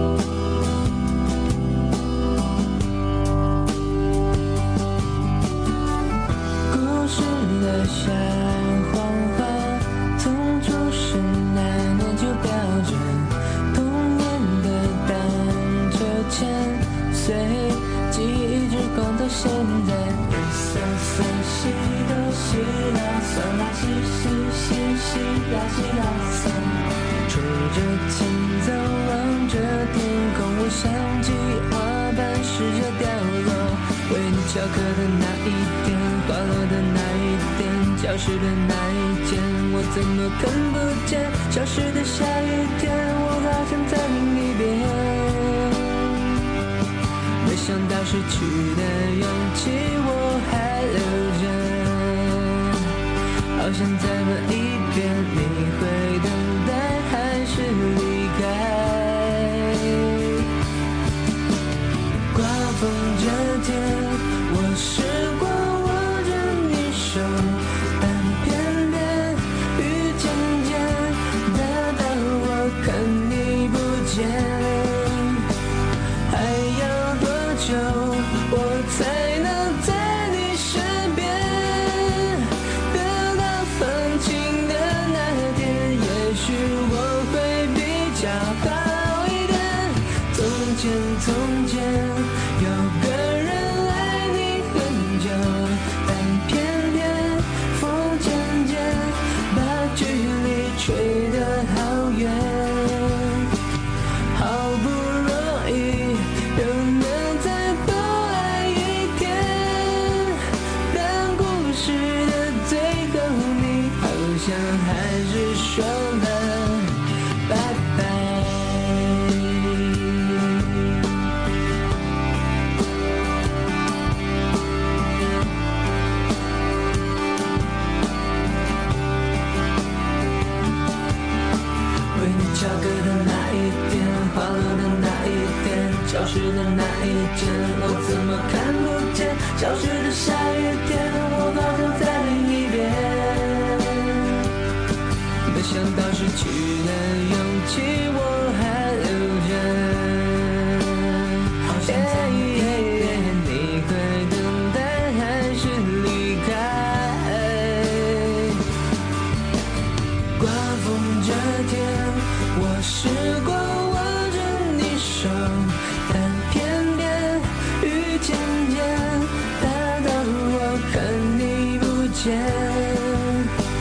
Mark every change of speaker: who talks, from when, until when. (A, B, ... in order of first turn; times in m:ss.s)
0:06.7-0:46.3 A
0:47.4-0:52.9 A
0:53.6-1:00.5 A
1:02.3-1:15.5 A
1:16.3-1:43.5 A
1:44.3-2:01.1 A
2:12.1-2:24.5 A
2:25.5-2:38.6 A
2:40.4-2:53.5 A